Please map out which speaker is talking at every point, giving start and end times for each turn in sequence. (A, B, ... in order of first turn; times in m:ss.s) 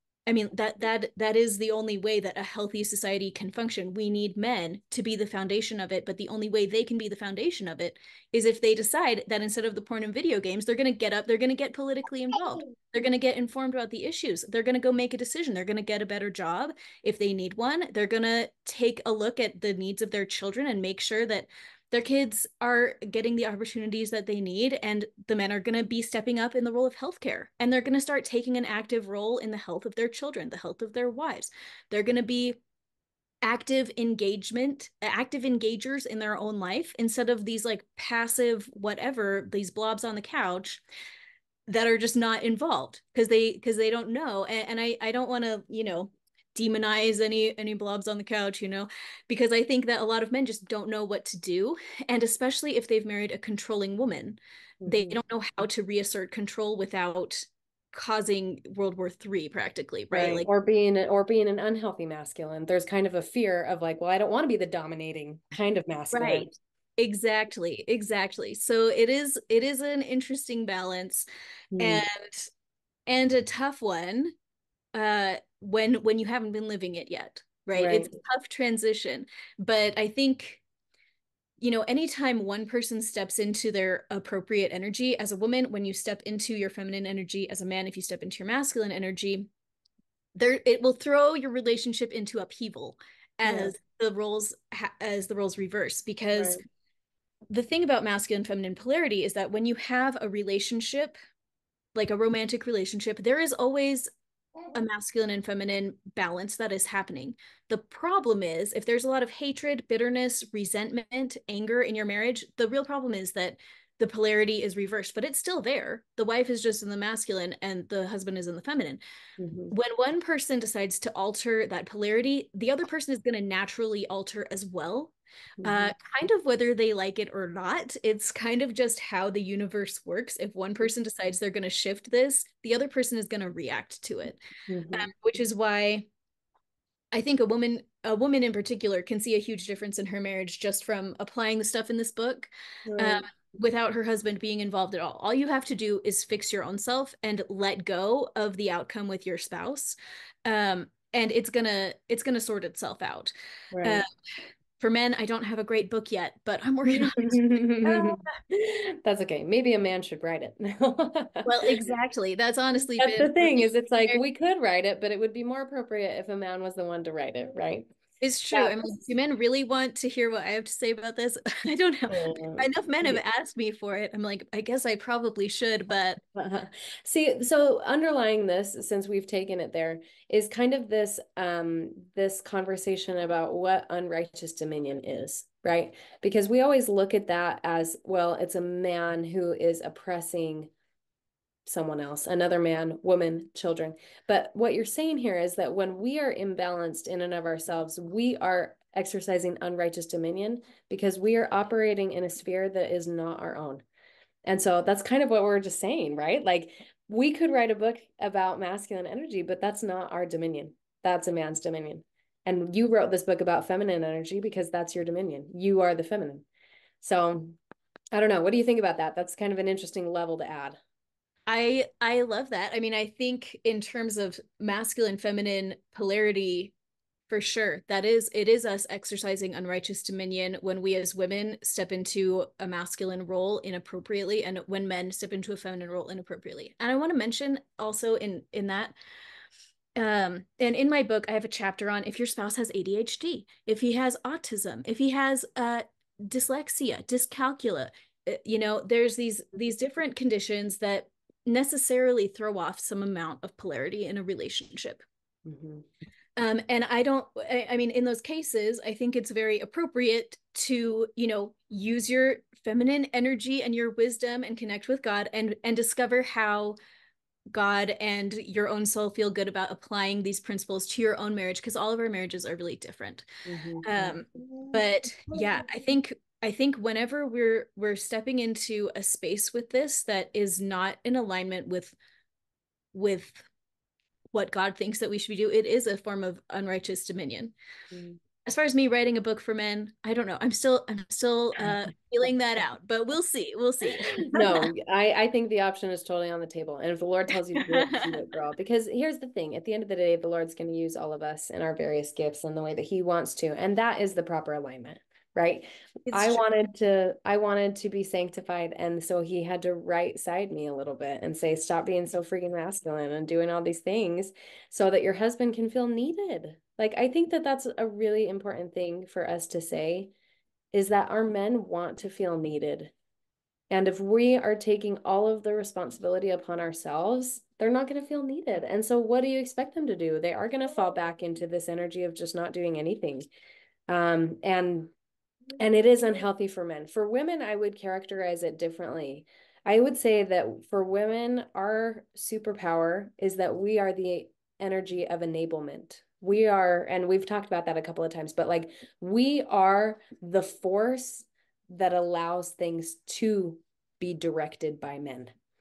0:00.3-0:32.6 A
0:33.4-0:40.8 A
0:41.7-1:00.5 A
0:54.8-0:55.2 B
1:00.1-1:06.5 B
1:06.1-1:11.2 A
1:11.7-1:12.0 B
1:11.8-1:12.5 A
1:13.1-1:14.3 A
1:14.9-1:20.6 A
1:17.8-1:18.1 B
1:21.6-1:29.5 A
1:30.4-1:36.6 A
1:33.4-1:33.7 B
1:37.5-1:41.1 A
1:42.0-1:44.1 A
1:44.7-1:59.0 A
1:59.4-1:59.7 B
1:59.7-2:05.1 A
2:05.6-2:05.9 B
2:05.6-2:14.4 A
2:14.7-2:15.1 B
2:14.9-2:16.1 A
2:17.1-2:29.9 A
2:22.9-2:23.3 B
2:30.4-2:34.1 A
2:33.7-2:34.0 B
2:34.8-2:38.3 A
2:36.9-2:41.8 B
2:41.4-2:44.2 A
2:43.0-2:47.9 B
2:48.2-2:56.2 A
2:48.5-2:48.8 B
2:52.1-2:53.2 B
2:56.4-3:10.7 B
3:11.7-3:23.8 B
3:24.5-3:36.5 B
3:37.0-3:37.6 B
3:38.1-3:40.8 B
3:41.5-3:46.7 A
3:47.3-3:59.0 A
4:00.0-4:15.0 A
4:15.5-4:15.9 B
4:16.4-4:26.8 A
4:27.5-4:33.3 A
4:33.4-4:34.2 B
4:33.8-4:42.0 A
4:42.9-4:43.5 A
4:44.3-4:47.5 A
4:47.9-4:48.2 B
4:48.4-4:54.7 A
4:54.3-5:20.1 B
4:57.6-4:58.1 A
5:06.1-5:06.4 A
5:20.7-5:22.9 B
5:23.7-5:33.2 B
5:33.9-5:34.9 B
5:35.6-5:55.3 B